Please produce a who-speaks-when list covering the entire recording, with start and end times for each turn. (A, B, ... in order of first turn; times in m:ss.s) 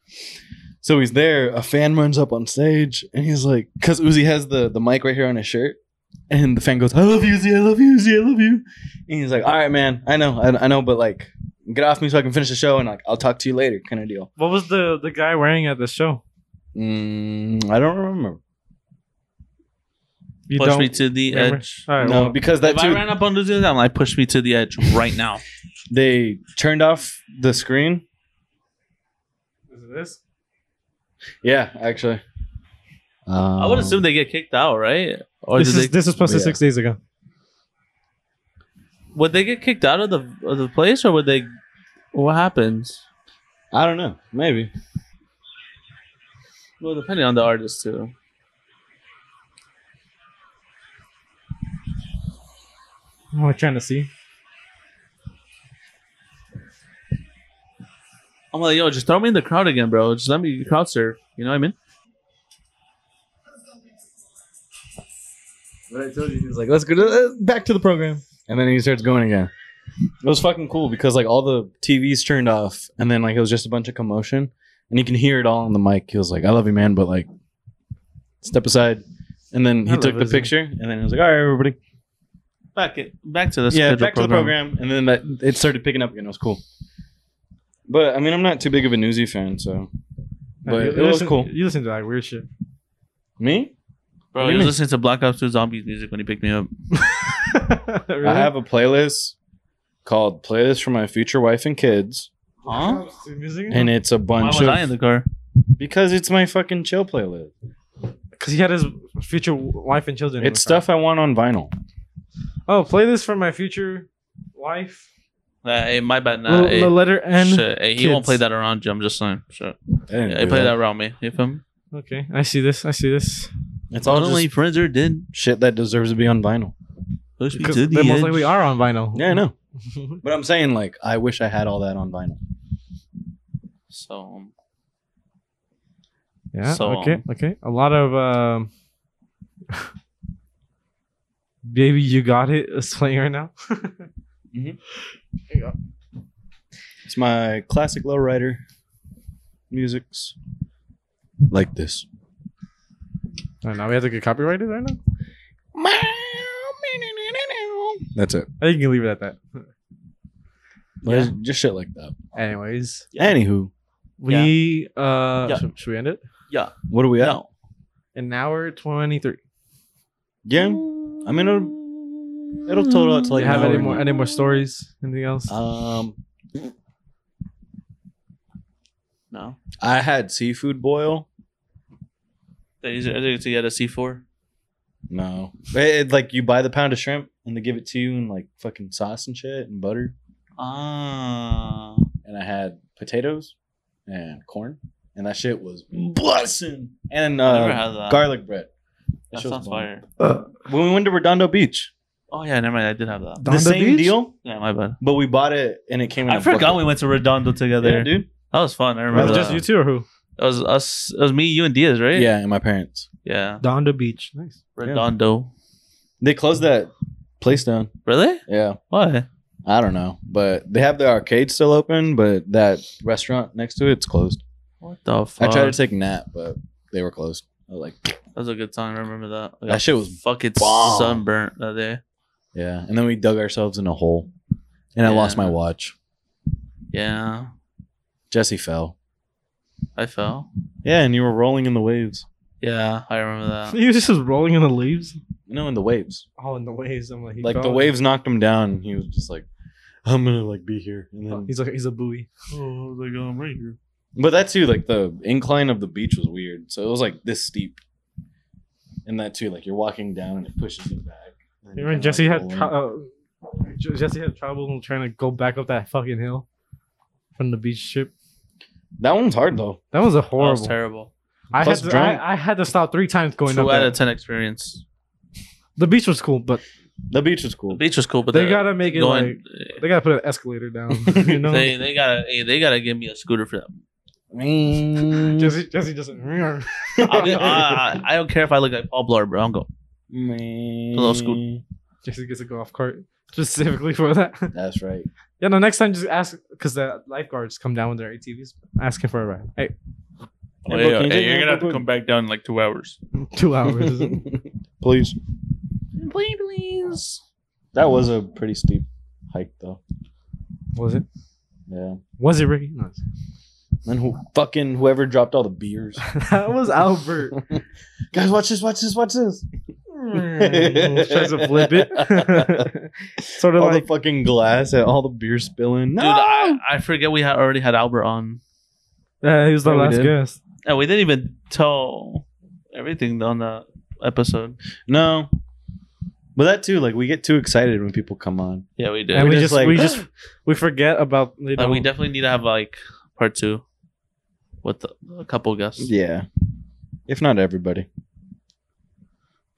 0:00.8-0:05.8 A
0:06.3-0:14.3 A
0:14.4-0:16.2 B
0:16.7-0:18.4 A
0:20.5-0:22.3 B
0:20.5-0:25.4 C
0:22.0-0:23.1 A
0:25.9-0:28.0 A
0:29.7-0:30.2 B
0:31.4-0:32.2 A
0:33.3-0:34.0 A
0:33.6-0:36.0 C
0:35.6-0:37.0 B
0:36.2-0:36.6 A
0:39.1-0:41.5 C
0:42.1-0:43.0 C
0:43.7-0:44.7 A
0:46.8-0:48.1 C
0:53.3-0:54.1 B
0:58.5-1:01.7 C
1:05.9-1:09.5 A
1:10.2-1:17.3 A
1:18.4-1:21.8 A
1:19.8-1:20.5 B
1:22.7-1:24.5 C
1:23.7-1:26.6 A
1:27.9-1:29.9 A
1:30.6-1:32.5 B
1:30.6-1:31.5 A
1:33.4-1:33.7 A
1:34.3-1:36.7 C
1:34.4-1:34.8 A
1:37.0-1:38.5 B
1:38.2-1:39.3 A
1:40.0-1:42.3 A
1:42.6-1:43.0 C
1:42.6-1:43.9 B
1:43.7-1:44.9 A
1:44.4-1:45.2 C
1:45.8-1:47.5 A
1:48.4-1:50.8 B
1:50.4-1:51.7 A
1:52.7-1:55.1 B
1:55.6-2:01.6 C
1:56.5-1:58.4 B
2:00.1-2:00.7 A
2:01.9-2:03.5 B
2:03.9-2:04.5 A
2:04.0-2:05.3 C
2:05.3-2:06.7 A
2:07.4-2:08.5 C
2:07.5-2:10.2 B
2:09.1-2:09.5 A
2:10.2-2:12.4 A
2:13.9-2:14.5 C
2:16.5-2:18.7 B
2:16.7-2:17.2 C
2:21.6-2:24.0 B
2:24.5-2:24.8 A
2:27.0-2:28.6 A
2:29.7-2:30.3 A
2:31.5-2:32.0 A
2:33.6-2:35.0 B
2:35.7-2:38.5 A
2:38.6-2:39.6 B
2:41.0-2:42.1 A
2:41.0-2:41.3 C
2:42.3-2:43.0 B
2:43.1-2:43.7 A
2:44.2-2:46.2 B
2:44.3-2:44.5 C
2:46.5-2:47.5 C
2:46.9-2:47.4 A
2:48.1-2:49.4 B
2:50.4-2:51.8 A
2:50.6-2:51.6 C
2:52.6-2:54.3 A
2:52.9-2:53.8 C
2:53.3-2:55.5 B
2:55.5-2:56.2 A
2:59.3-2:59.6 C
2:59.8-3:01.3 A
3:02.8-3:04.2 C
3:05.1-3:10.1 A
3:10.6-3:12.0 C
3:12.2-3:13.5 A
3:14.1-3:18.7 A
3:17.4-3:18.3 C
3:19.3-3:19.9 A
3:19.3-3:20.0 C
3:20.5-3:21.9 A
3:22.3-3:23.4 C
3:23.4-3:24.2 B
3:23.4-3:24.3 A
3:24.4-3:25.0 C
3:25.0-3:26.9 A
3:26.2-3:29.6 C
3:27.8-3:28.3 A
3:29.1-3:29.5 A
3:29.1-3:30.0 B
3:30.4-3:32.3 C
3:32.1-3:33.1 A
3:33.2-3:33.6 C
3:33.6-3:34.6 B
3:34.8-3:35.5 C
3:36.2-3:37.9 A
3:38.0-3:39.2 C
3:38.5-3:38.8 A
3:39.6-3:44.4 A
3:44.8-3:45.8 C
3:45.4-3:48.2 A
3:48.4-3:52.0 C
3:49.7-3:51.2 A
3:52.5-3:54.3 A
3:54.9-3:55.9 A
3:55.0-3:55.5 C
3:56.9-3:57.5 C
3:58.3-3:58.9 A
4:00.0-4:00.5 C
4:00.8-4:02.2 A
4:02.6-4:03.8 C
4:03.7-4:05.2 B
4:05.5-4:06.2 A
4:06.4-4:07.9 B
4:07.4-4:09.4 A
4:10.0-4:11.5 A
4:11.3-4:12.3 B
4:12.5-4:13.8 C
4:14.2-4:17.8 A
4:19.0-4:22.7 A
4:21.8-4:26.4 B
4:27.4-4:28.1 B
4:29.0-4:29.8 A
4:29.9-4:30.7 B
4:30.4-4:31.1 C
4:31.5-4:33.9 B
4:31.6-4:32.2 A
4:33.5-4:34.8 C
4:35.8-4:36.6 B
4:37.1-4:37.8 A
4:37.7-4:39.8 C
4:38.3-4:41.7 B
4:41.0-4:41.4 A
4:41.5-4:43.8 C
4:44.3-4:45.6 A
4:45.2-4:47.7 B
4:47.0-4:47.7 A
4:47.0-4:49.7 C
4:50.1-4:51.6 A
4:50.9-4:51.4 C
4:52.0-4:54.5 B
4:54.5-4:55.1 A
4:55.4-4:59.7 B
5:00.6-5:01.8 A
5:00.7-5:03.0 C
5:03.2-5:04.2 B
5:03.7-5:05.2 A
5:06.0-5:07.2 C
5:07.7-5:09.8 A
5:10.8-5:11.0 A
5:11.7-5:12.0 A
5:12.2-5:13.0 B
5:13.8-5:16.0 A
5:16.1-5:17.4 B
5:17.3-5:19.4 A
5:20.0-5:23.8 B
5:20.0-5:22.7 A
5:23.2-5:26.6 A
5:26.0-5:28.4 C
5:29.2-5:30.4 B
5:29.6-5:30.1 A
5:30.6-5:34.6 C
5:34.9-5:35.3 A
5:36.4-5:40.0 A
5:38.8-5:39.4 C
5:39.1-5:41.9 B
5:41.6-5:43.6 C
5:44.6-5:45.9 C
5:45.8-5:46.3 A
5:47.1-5:47.9 A